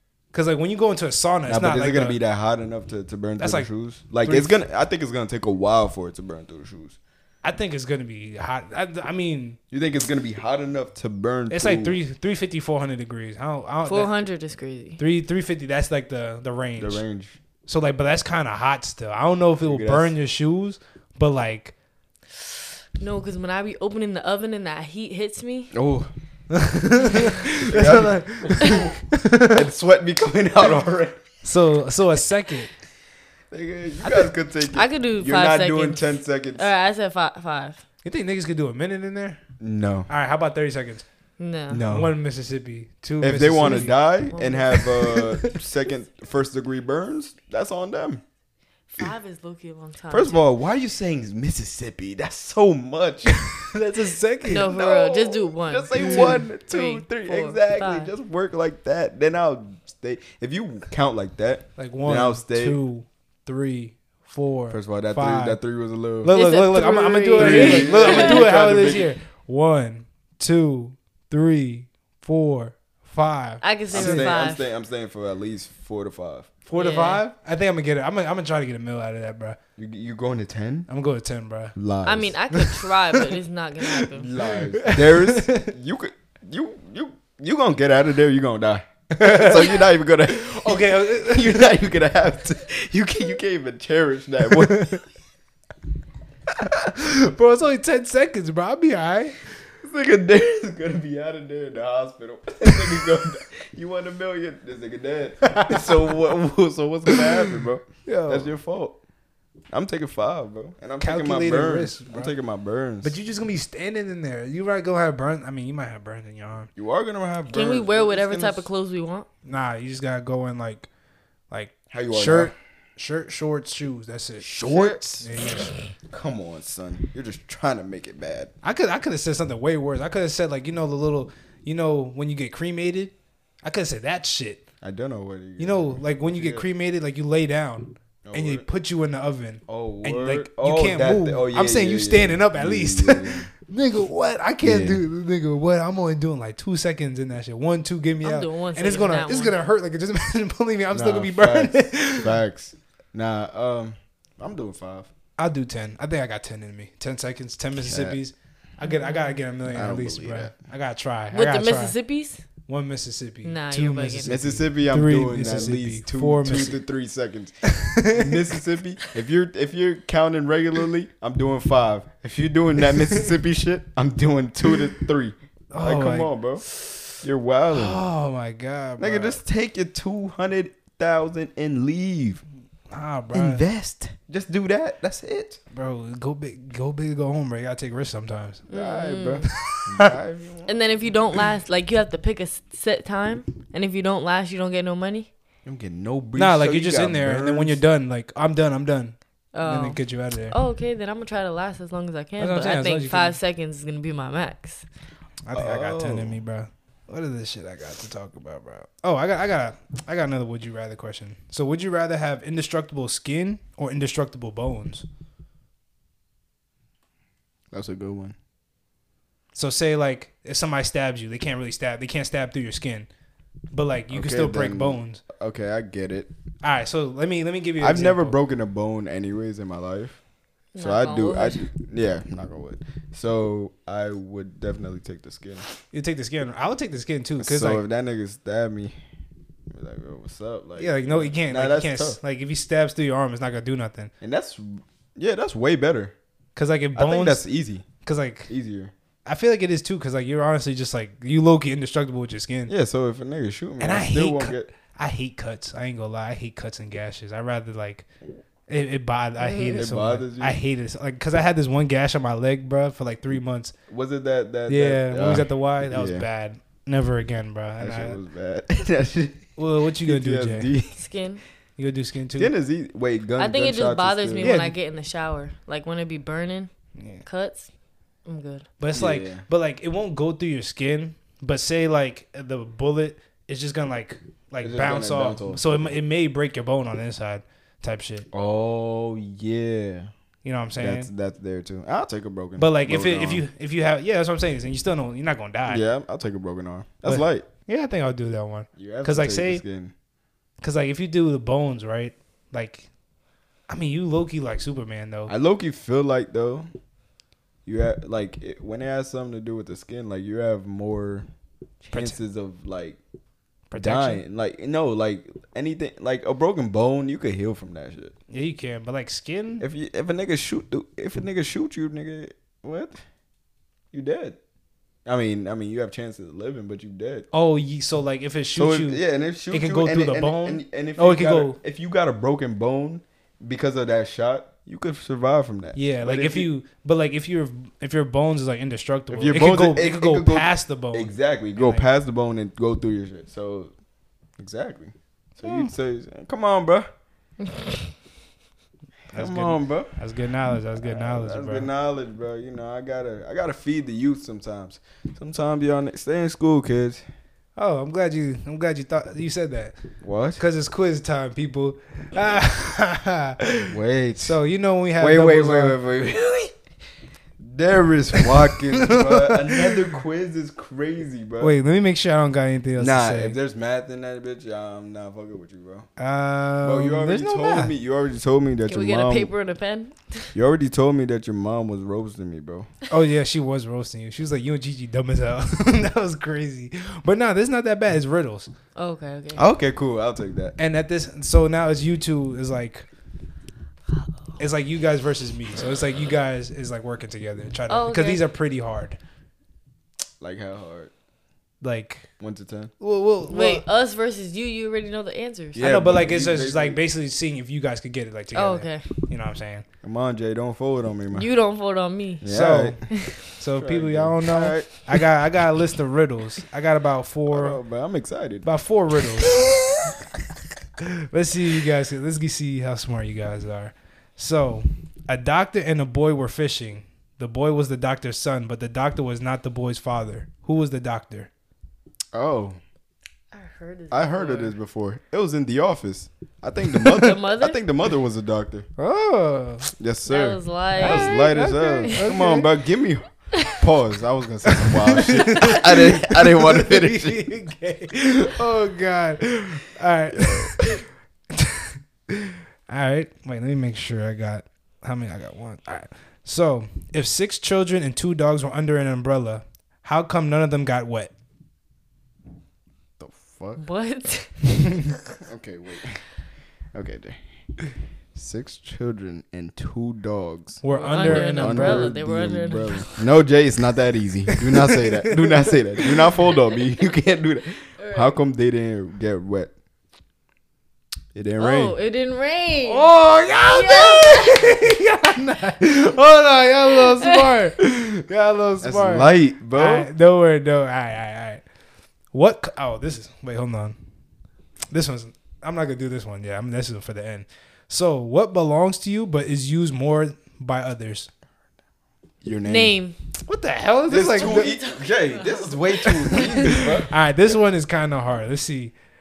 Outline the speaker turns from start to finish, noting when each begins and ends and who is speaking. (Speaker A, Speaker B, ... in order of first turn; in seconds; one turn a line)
Speaker A: 0.3-2.2
Speaker B: 1.5-7.0
Speaker A: 3.4-3.7
Speaker A: 4.2-4.5
Speaker A: 7.4-9.6
Speaker B: 9.7-12.0
Speaker A: 11.5-14.1
Speaker C: 13.8-15.0
Speaker A: 15.0-17.0
Speaker B: 16.8-17.4
Speaker A: 17.6-21.7
Speaker B: 19.6-20.1
Speaker C: 23.0-25.7
Speaker B: 25.7-26.1
Speaker A: 26.5-29.6
Speaker B: 27.6-31.2
Speaker A: 31.4-32.7
Speaker B: 33.5-36.7
Speaker C: 34.7-37.8
Speaker A: 38.0-39.4
Speaker B: 39.6-40.1
Speaker A: 40.1-41.0
Speaker C: 41.4-41.8
Speaker B: 41.7-42.1
Speaker A: 41.9-44.0
Speaker B: 43.2-48.2
Speaker C: 44.3-44.9
Speaker A: 44.8-45.5
Speaker C: 48.9-50.4
Speaker B: 50.1-53.4
Speaker A: 53.3-54.7
Speaker C: 54.4-58.1
Speaker B: 54.5-62.8
Speaker A: 61.8-65.6
Speaker B: 64.7-66.3
Speaker A: 66.2-74.4
Speaker C: 66.3-68.5
Speaker B: 67.3-69.1
Speaker C: 73.6-74.6
Speaker B: 73.9-76.5
Speaker A: 76.7-79.6
Speaker C: 76.7-77.2
Speaker B: 79.8-80.9
Speaker A: 80.9-81.7
Speaker B: 81.7-82.4
Speaker C: 82.0-84.3
Speaker A: 82.5-83.2
Speaker B: 84.1-95.0
Speaker A: 84.7-85.7
Speaker A: 89.1-89.8
Speaker A: 90.3-91.6
Speaker A: 96.8-99.4
Speaker B: 99.8-109.0
Speaker A: 105.5-106.0
Speaker A: 108.0-108.5
Speaker B: 109.7-113.1
Speaker A: 111.0-112.3
Speaker A: 113.0-116.7
Speaker B: 116.8-118.7
Speaker C: 117.5-119.3
Speaker A: 119.4-120.9
Speaker A: 121.5-125.7
Speaker B: 121.9-122.5
Speaker B: 124.4-125.3
Speaker B: 126.1-128.5
Speaker A: 128.6-134.6
Speaker B: 134.8-136.7
Speaker A: 135.6-152.3
Speaker B: 138.2-138.7
Speaker B: 139.7-143.5
Speaker B: 144.6-145.0
Speaker C: 148.2-149.5
Speaker B: 150.9-155.1
Speaker A: 155.4-161.9
Speaker B: 157.8-158.2
Speaker C: 158.8-159.4
Speaker B: 159.6-160.5
Speaker C: 161.3-162.4
Speaker A: 162.7-166.8
Speaker C: 163.4-164.4
Speaker B: 164.2-176.6
Speaker A: 167.7-168.3
Speaker A: 175.7-177.0
Speaker B: 177.2-178.0
Speaker A: 177.7-179.4
Speaker B: 179.0-182.4
Speaker A: 182.9-183.6
Speaker B: 183.3-185.6
Speaker A: 185.7-188.7
Speaker C: 188.7-189.5
Speaker B: 188.7-191.1
Speaker A: 189.6-190.1
Speaker C: 190.7-195.3
Speaker B: 195.6-197.8
Speaker A: 196.4-200.6
Speaker C: 199.5-200.0
Speaker C: 200.5-204.9
Speaker A: 202.4-203.4
Speaker A: 205.4-215.0
Speaker B: 205.5-206.4
Speaker B: 217.7-218.3
Speaker A: 219.5-223.1
Speaker A: 223.7-225.2
Speaker B: 224.1-226.3
Speaker A: 226.6-228.4
Speaker B: 227.8-230.2
Speaker C: 230.7-231.7
Speaker B: 230.8-235.7
Speaker A: 235.9-237.8
Speaker B: 237.4-238.9
Speaker B: 239.7-242.2
Speaker A: 240.8-244.1
Speaker B: 244.2-246.1
Speaker A: 246.6-247.4
Speaker B: 246.9-247.9
Speaker A: 248.0-248.5
Speaker B: 248.5-248.9
Speaker A: 249.2-252.7
Speaker B: 252.7-254.7
Speaker A: 253.8-258.1
Speaker A: 258.7-263.7
Speaker C: 259.4-259.8
Speaker B: 259.8-260.6
Speaker B: 263.9-266.2
Speaker A: 264.7-268.2
Speaker B: 267.8-271.0
Speaker A: 269.6-270.7
Speaker C: 270.9-271.4
Speaker A: 271.8-272.5
Speaker B: 272.4-274.5
Speaker C: 273.4-276.7
Speaker A: 274.4-274.8
Speaker A: 277.0-277.2
Speaker C: 277.2-277.7
Speaker C: 278.2-278.7
Speaker A: 278.8-288.3
Speaker B: 278.9-279.4
Speaker B: 284.6-285.9
Speaker B: 288.3-290.1
Speaker A: 290.4-291.1
Speaker B: 290.8-293.4
Speaker A: 292.6-295.8
Speaker B: 295.7-297.5
Speaker A: 297.0-299.6
Speaker B: 298.8-299.9
Speaker A: 300.6-302.9
Speaker A: 303.7-305.3
Speaker B: 305.3-306.7
Speaker B: 307.6-311.3
Speaker B: 311.8-313.0
Speaker A: 311.9-312.2
Speaker A: 313.7-314.2
Speaker B: 313.8-318.1
Speaker A: 318.3-319.6
Speaker B: 319.6-323.0
Speaker B: 323.9-324.4
Speaker B: 325.1-327.3
Speaker A: 327.3-331.6
Speaker B: 328.5-336.5
Speaker A: 335.8-341.9
Speaker B: 339.1-343.7
Speaker B: 344.4-346.9
Speaker A: 345.4-345.7
Speaker C: 347.4-347.9
Speaker A: 349.1-351.7
Speaker B: 349.1-349.9
Speaker B: 350.8-357.0
Speaker A: 357.6-359.8
Speaker B: 360.0-360.4
Speaker A: 360.4-365.8
Speaker B: 363.7-364.4
Speaker B: 365.0-366.5
Speaker B: 367.4-371.6
Speaker A: 368.2-369.9
Speaker A: 371.4-373.4
Speaker B: 372.8-375.9
Speaker A: 376.0-377.7
Speaker B: 376.6-379.3
Speaker C: 378.7-380.3
Speaker B: 380.3-382.7
Speaker A: 382.9-388.5
Speaker C: 388.7-389.4
Speaker B: 389.3-390.6
Speaker A: 390.6-392.9
Speaker A: 394.4-399.0
Speaker C: 397.7-398.2
Speaker B: 400.2-400.9
Speaker A: 401.6-402.1
Speaker B: 402.2-402.7
Speaker A: 402.8-403.6
Speaker C: 403.3-405.6
Speaker B: 405.5-406.8
Speaker A: 405.6-409.6
Speaker C: 408.3-408.9
Speaker B: 409.8-411.3
Speaker C: 411.1-412.2
Speaker B: 412.2-412.9
Speaker A: 412.3-412.8
Speaker C: 412.9-413.2
Speaker A: 413.4-417.6
Speaker B: 413.5-414.9
Speaker B: 417.3-418.4
Speaker A: 418.4-419.4
Speaker B: 419.3-419.6
Speaker A: 420.8-431.3
Speaker B: 432.1-432.6
Speaker C: 433.3-434.6
Speaker B: 433.9-438.7
Speaker C: 436.9-437.6
Speaker A: 438.8-439.7
Speaker B: 439.8-447.2
Speaker C: 440.1-441.3
Speaker A: 440.8-442.5
Speaker C: 443.4-443.6
Speaker A: 444.5-450.8
Speaker B: 450.1-450.8
Speaker A: 451.3-461.1
Speaker B: 463.0-463.6
Speaker C: 463.6-465.0
Speaker B: 465.2-466.1
Speaker B: 466.7-467.2
Speaker B: 468.1-479.5
Speaker A: 470.6-471.9
Speaker C: 470.7-473.0
Speaker A: 474.5-475.8
Speaker C: 477.8-478.1
Speaker B: 481.1-481.8
Speaker C: 481.4-482.9
Speaker A: 482.6-491.4
Speaker C: 483.5-484.6
Speaker C: 487.0-487.3
Speaker B: 487.6-487.9
Speaker B: 488.6-489.9
Speaker A: 492.1-493.8
Speaker A: 494.7-501.1
Speaker B: 502.2-502.7
Speaker C: 502.4-503.0
Speaker A: 503.2-504.6
Speaker B: 503.9-506.9
Speaker C: 503.9-506.7
Speaker A: 506.1-508.7